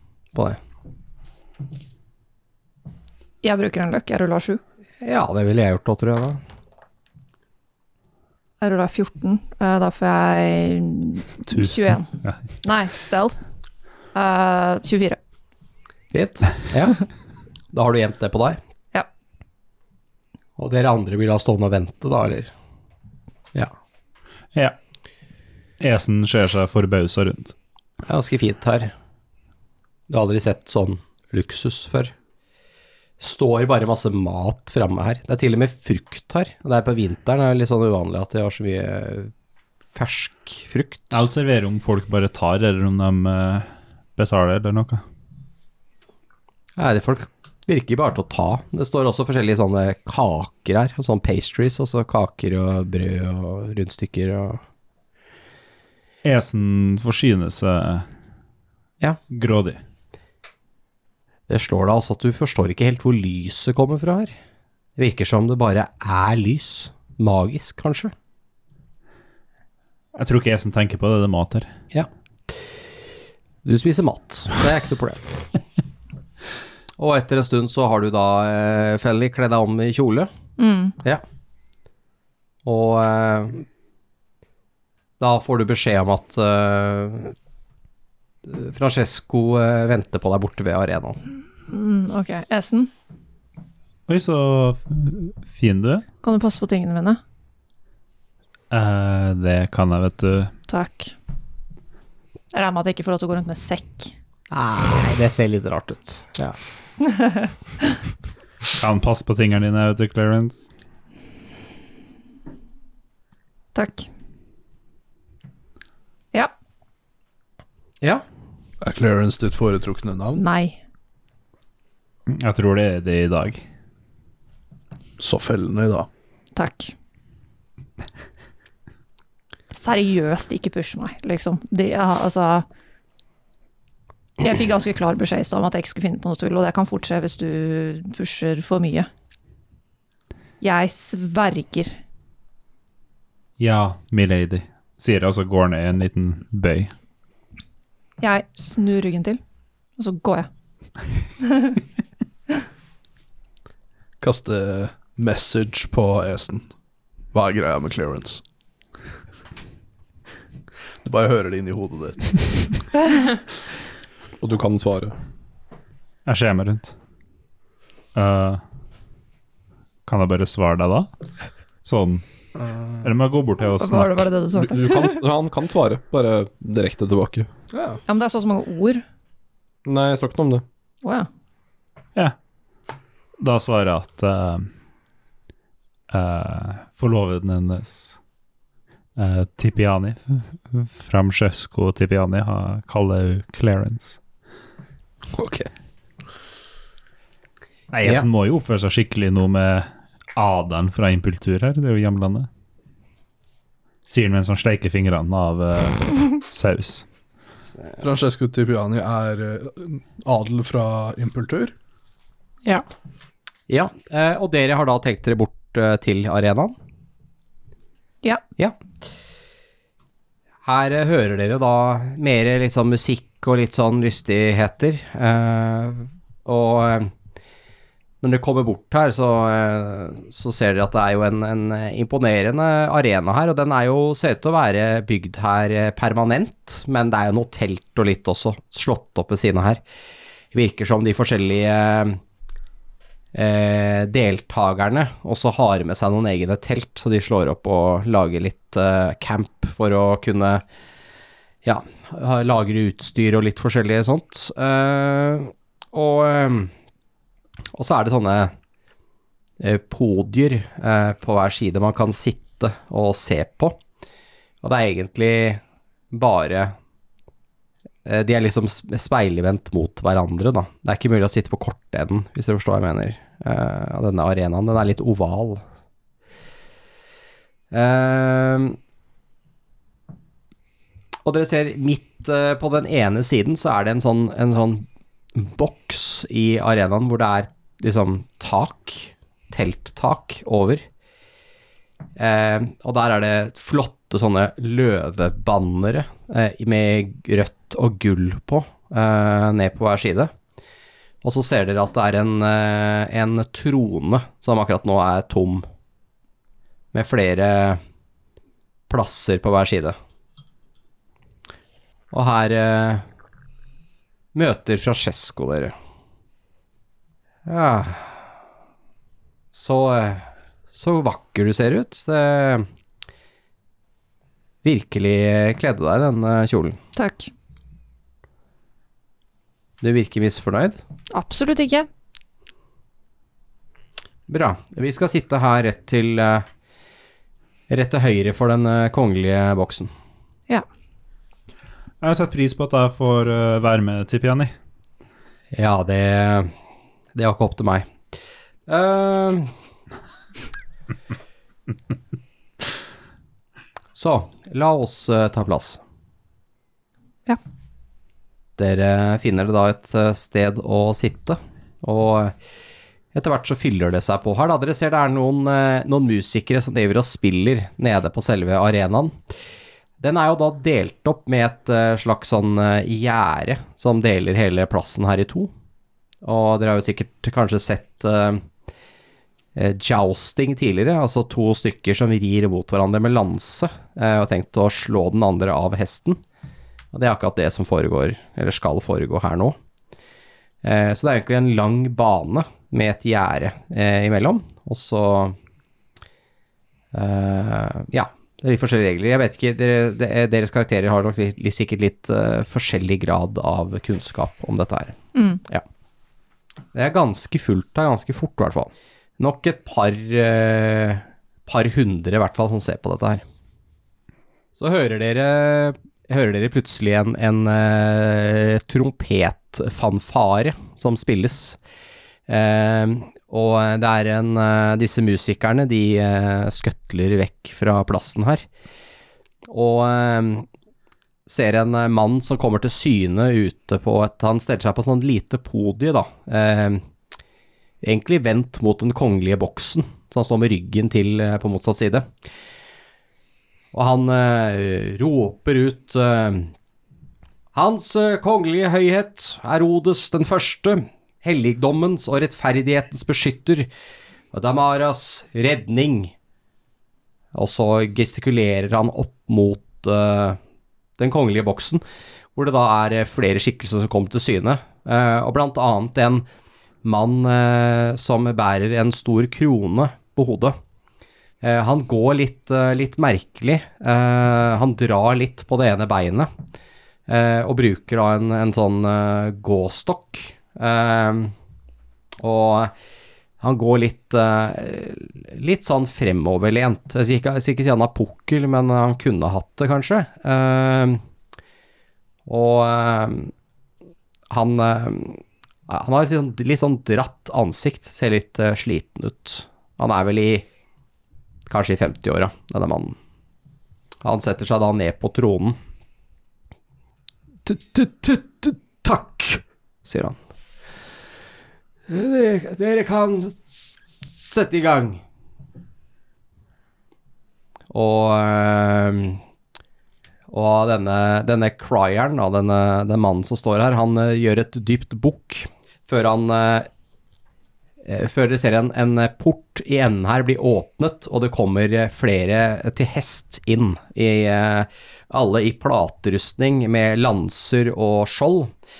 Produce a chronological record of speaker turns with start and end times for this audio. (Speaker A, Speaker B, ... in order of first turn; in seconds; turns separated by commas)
Speaker A: 0.3-0.6, Speaker B: 3.4-4.6, Speaker A: 5.0-6.4, Speaker B: 8.6-13.4, Speaker C: 11.5-12.4, Speaker B: 14.1-15.2, Speaker A: 16.1-17.0, Speaker A: 17.7-18.6, Speaker A: 20.6-22.5, Speaker C: 25.8-27.6, Speaker A: 28.0-28.9, Speaker A: 30.1-32.1, Speaker A: 33.2-39.3, Speaker A: 39.9-41.2, Speaker C: 41.1-45.0, Speaker A: 46.8-54.6, Speaker C: 56.2-58.1, Speaker C: 59.3-59.8, Speaker A: 61.5-64.3, Speaker A: 65.0-68.1, Speaker C: 70.2-71.7, Speaker A: 73.6-75.3, Speaker A: 77.0-80.3, Speaker B: 80.6-81.0, Speaker A: 82.7-83.7, Speaker A: 85.2-87.3, Speaker A: 88.5-91.2, Speaker B: 91.7-92.9, Speaker C: 94.1-96.0, Speaker B: 96.2-97.2, Speaker C: 98.7-100.5, Speaker B: 100.7-101.1, Speaker B: 102.5-104.1, Speaker A: 104.5-106.6, Speaker B: 107.0-107.5, Speaker C: 108.7-110.7, Speaker B: 113.7-114.1, Speaker D: 118.8-120.4, Speaker B: 120.3-120.8, Speaker C: 122.3-123.6, Speaker D: 125.2-126.1, Speaker B: 126.5-126.9, Speaker B: 129.7-132.7, Speaker B: 134.4-139.1, Speaker B: 140.6-142.0, Speaker C: 143.6-146.9, Speaker B: 148.2-149.4, Speaker B: 150.0-150.5, Speaker B: 151.4-151.8, Speaker D: 154.2-156.7, Speaker D: 157.3-158.4, Speaker D: 161.0-162.7, Speaker E: 164.4-165.2, Speaker C: 166.3-166.9, Speaker C: 168.2-168.6, Speaker C: 170.1-171.1, Speaker C: 171.8-172.2, Speaker D: 172.6-173.1, Speaker C: 173.0-174.3, Speaker B: 173.8-175.2, Speaker E: 174.6-177.5, Speaker D: 177.7-178.0, Speaker B: 178.1-179.0, Speaker E: 179.8-180.6, Speaker B: 181.0-181.3, Speaker C: 183.4-184.7, Speaker C: 186.1-188.2, Speaker C: 189.2-194.2, Speaker D: 195.4-195.7, Speaker C: 197.9-202.5, Speaker C: 204.1-207.1, Speaker D: 208.0-211.7, Speaker A: 213.7-216.8, Speaker A: 220.6-227.1, Speaker A: 228.2-239.8, Speaker A: 240.5-242.2, Speaker A: 243.3-250.6, Speaker A: 251.6-256.7, Speaker A: 257.7-258.5, Speaker A: 259.6-263.8, Speaker A: 264.6-266.8, Speaker A: 268.1-275.6, Speaker A: 277.7-278.8, Speaker A: 281.2-290.8, Speaker A: 292.2-300.3, Speaker A: 301.2-305.7, Speaker A: 306.9-307.8, Speaker A: 308.9-310.0, Speaker A: 312.1-313.0, Speaker A: 314.3-315.7, Speaker A: 317.5-318.2, Speaker A: 319.5-322.7, Speaker A: 324.6-326.8, Speaker B: 327.0-327.3, Speaker A: 329.8-330.8, Speaker B: 331.1-331.9, Speaker A: 334.3-336.5, Speaker A: 337.7-339.9, Speaker C: 342.0-344.5, Speaker A: 345.5-346.5, Speaker A: 347.1-347.9, Speaker A: 348.7-349.5, Speaker A: 353.9-355.8, Speaker A: 358.6-362.4, Speaker A: 363.1-369.2, Speaker A: 370.0-375.5, Speaker A: 376.2-378.4, Speaker A: 379.6-386.2, Speaker A: 386.9-389.6, Speaker A: 390.6-395.4, Speaker A: 396.9-405.0, Speaker B: 405.1-405.4, Speaker A: 406.7-413.2, Speaker A: 414.6-421.6, Speaker A: 422.3-428.4, Speaker A: 429.5-430.5, Speaker A: 431.3-436.8, Speaker A: 437.8-442.1, Speaker A: 443.7-446.5, Speaker A: 447.5-453.7, Speaker A: 454.3-456.1, Speaker A: 457.3-460.4, Speaker A: 461.0-461.8, Speaker A: 462.4-466.3, Speaker A: 466.8-470.6, Speaker A: 471.4-476.3, Speaker A: 477.1-481.3, Speaker A: 482.2-482.7, Speaker A: 483.4-491.0, Speaker A: 492.3-493.3, Speaker A: 494.3-500.5, Speaker A: 501.5-503.0, Speaker A: 504.0-505.6, Speaker A: 507.4-510.2, Speaker A: 511.9-515.0, Speaker A: 517.7-519.2, Speaker A: 520.3-526.7, Speaker A: 527.8-538.5